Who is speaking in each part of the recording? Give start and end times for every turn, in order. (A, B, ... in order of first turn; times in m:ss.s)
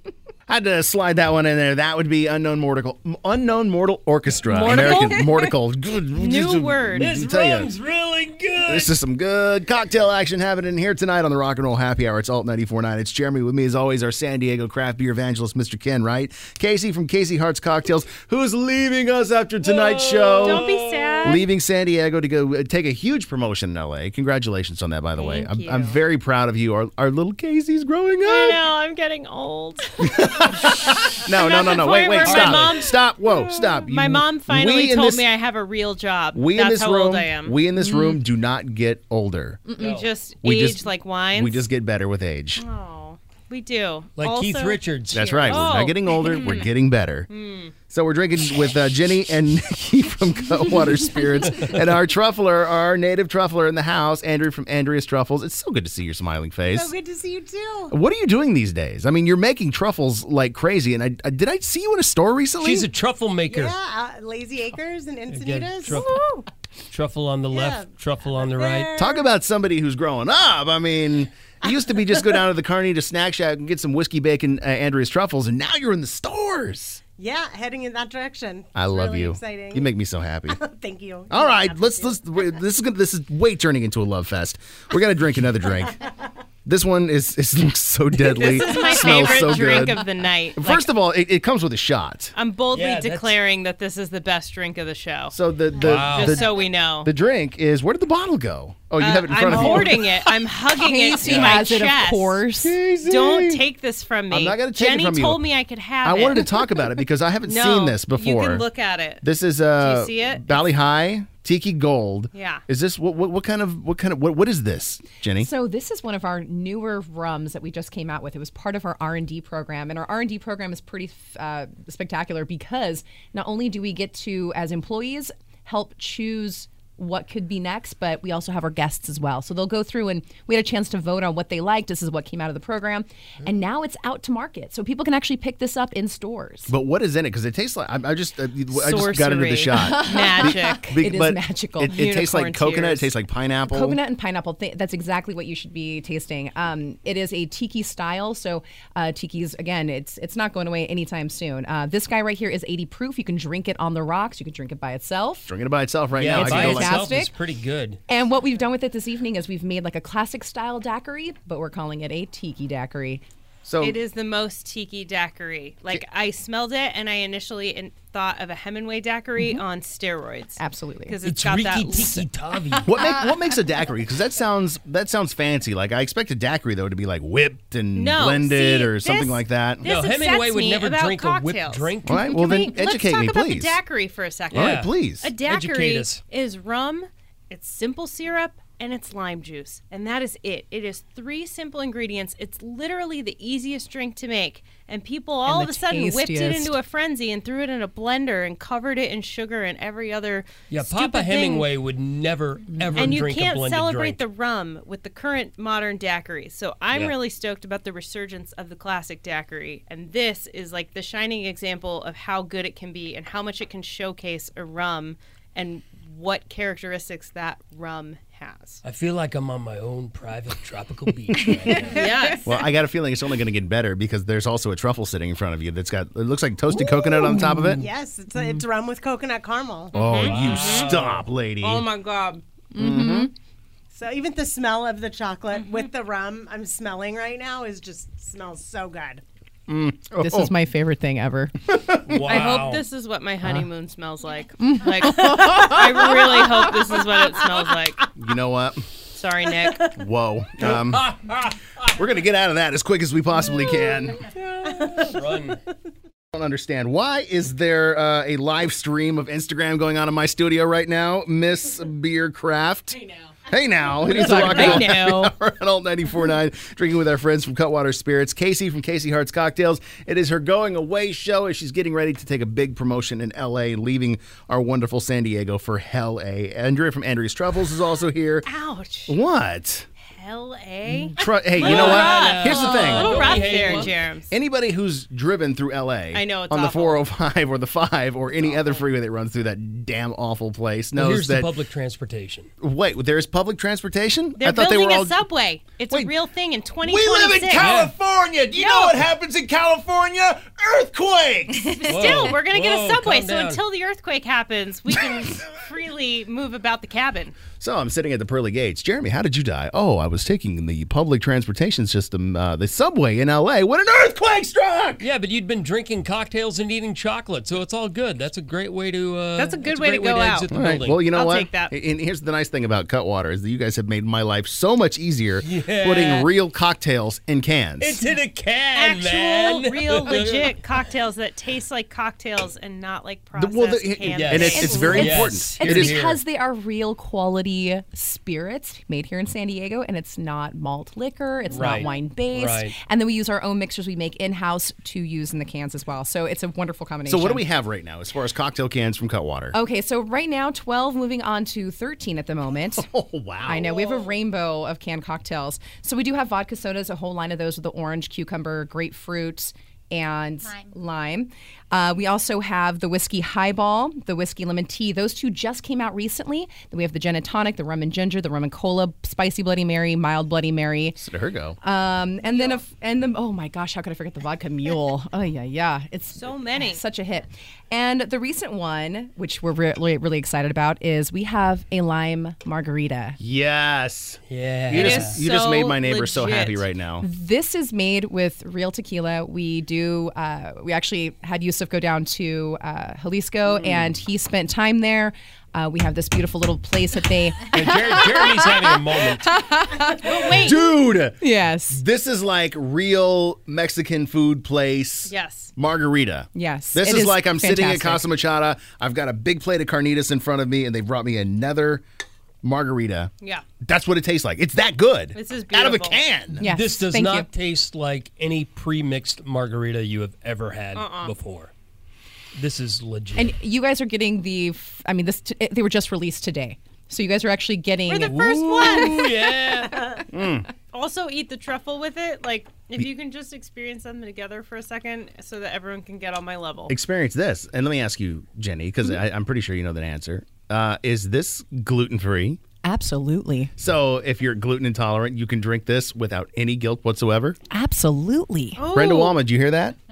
0:00.5-0:07.7 A
0:04.5-0:05.5 B
0:06.2-0:07.1 B
0:07.0-0:09.0 C
0:08.7-0:20.7 A
0:19.7-0:21.3 C
0:20.4-0:21.5 B
0:21.2-0:28.6 A
0:25.2-0:26.0 B
0:28.2-0:30.1 B
0:30.0-0:35.3 A
0:31.2-0:37.6 B
0:32.2-0:32.7 C
0:36.3-0:39.6 A
0:37.8-0:38.2 D
0:39.7-0:40.0 D
0:39.8-0:41.7 B
0:39.8-0:40.1 C
0:40.4-0:42.6 A
0:42.6-0:44.8 B
0:44.2-0:45.7 C
0:45.1-0:47.3 A
0:45.4-0:46.7 B
0:47.3-0:47.8 B
0:47.9-0:56.9 A
0:51.5-0:51.8 C
0:56.7-0:58.0 E
0:57.9-1:02.9 A
1:02.6-1:03.8 C
1:03.5-1:06.2 E
1:05.3-1:06.2 C
1:06.0-1:06.4 D
1:06.9-1:08.9 C
1:07.5-1:09.3 E
1:09.0-1:17.0 A
1:17.2-1:19.9 E
1:18.8-1:20.6 A
1:20.5-1:22.5 E
1:21.3-1:26.0 A
1:26.6-1:32.3 A
1:28.3-1:30.9 B
1:32.4-1:35.4 B
1:32.7-1:33.4 C
1:35.3-1:40.2 A
1:35.8-1:36.4 C
1:35.9-1:37.1 B
1:39.0-1:42.4 B
1:40.8-1:42.8 D
1:41.2-1:41.6 C
1:42.6-1:43.6 A
1:43.0-1:46.6 B
1:44.3-1:45.4 A
1:46.0-1:48.6 A
1:47.4-1:49.2 B
1:49.2-1:55.5 A
1:49.8-1:50.7 B
1:52.3-1:52.6 B
1:55.4-2:16.7 D
2:16.7-2:24.0 A
2:18.7-2:21.0 B
2:19.8-2:22.0 D
2:21.9-2:23.1 B
2:23.7-2:35.5 D
2:35.5-2:37.1 A
2:36.2-2:38.0 C
2:36.3-2:37.4 D
2:38.1-2:43.2 D
2:43.6-2:44.0 A
2:43.8-2:52.2 B
2:50.6-2:51.2 D
2:51.2-2:53.0 C
2:52.8-2:59.8 A
2:53.0-2:53.3 D
2:57.9-3:21.7 B
2:59.8-3:02.4 C
3:02.1-3:03.8 A
3:04.5-3:04.9 C
3:04.5-3:05.3 A
3:05.4-3:06.2 C
3:15.5-3:16.8 D
3:20.7-3:24.2 C
3:22.7-3:23.1 D
3:23.0-3:38.8 B
3:38.8-3:42.1 C
3:41.8-3:42.0 D
3:41.9-3:42.5 B
3:42.4-3:47.8 A
3:47.3-3:50.1 E
3:47.3-3:47.7 D
3:49.9-3:51.0 B
3:50.0-3:51.9 A
3:50.1-3:51.2 C
3:51.6-3:52.4 B
3:52.7-3:53.3 D
3:52.7-3:53.3 A
3:53.9-3:59.2 E
3:55.5-3:55.9 B
3:59.7-4:00.5 A
4:00.2-4:01.5 D
4:01.7-4:02.5 A
4:02.1-4:02.8 C
4:02.3-4:08.0 B
4:04.6-4:05.8 D
4:05.4-4:08.1 E
4:08.2-4:08.9 A
4:09.1-4:10.0 B
4:09.9-4:11.1 A
4:10.6-4:11.9 C
4:11.8-4:14.3 A
4:14.5-4:15.2 E
4:15.0-4:15.6 C
4:16.3-4:23.0 A
4:23.0-4:23.3 E
4:23.5-4:38.5 A
4:24.1-4:25.3 B
4:24.1-4:24.8 D
4:38.5-4:39.2 B
4:39.1-4:39.9 A
4:40.1-4:44.3 B
4:41.1-4:43.2 A
4:41.6-4:43.9 C
4:42.5-4:43.9 D
4:44.3-4:51.5 A
4:46.1-4:47.0 B
4:48.4-4:48.8 B
4:51.0-4:52.5 C
4:52.6-4:55.2 A
4:54.4-4:57.7 B
4:56.8-5:01.8 A
4:57.6-4:57.9 C
4:58.6-4:59.0 B
5:01.8-5:07.4 B
5:01.9-5:03.6 C
5:07.6-5:15.0 A
5:15.0-5:21.1 C
5:19.4-5:20.5 B
5:20.5-5:28.0 A
5:21.1-5:21.7 B
5:25.4-5:26.3 C
5:27.8-5:30.6 C
5:28.8-5:35.0 B
5:33.4-5:36.0 A
5:34.1-5:36.2 C
5:34.5-5:47.4 D
5:41.5-5:42.8 C
5:47.1-5:49.6 A
5:49.5-5:52.9 D
5:52.7-5:54.0 A
5:53.4-6:11.0 D
6:11.0-6:11.6 A
6:11.6-6:23.2 D
6:16.1-6:16.8 B
6:23.2-6:27.1 A
6:24.3-6:25.2 C
6:24.7-6:26.7 B
6:27.0-6:40.4 D
6:33.5-6:34.0 A
6:37.5-6:39.4 C
6:40.0-6:40.7 B
6:40.3-6:51.8 A
6:41.2-6:41.8 D
6:45.1-6:45.5 B
6:46.4-6:48.0 D
6:52.4-6:56.4 A
6:55.2-6:56.0 B
6:56.4-6:57.3 D
6:56.4-7:01.5 C
7:00.8-7:01.1 B
7:02.4-7:03.4 C
7:03.2-7:08.3 D
7:07.9-7:08.9 E
7:07.9-7:09.0 B
7:08.0-7:10.0 C
7:10.1-7:10.5 A
7:10.7-7:16.7 B
7:16.7-7:22.4 A
7:22.6-7:23.5 D
7:23.6-7:27.4 A
7:27.5-7:28.6 D
7:28.6-7:29.2 B
7:28.7-7:29.8 A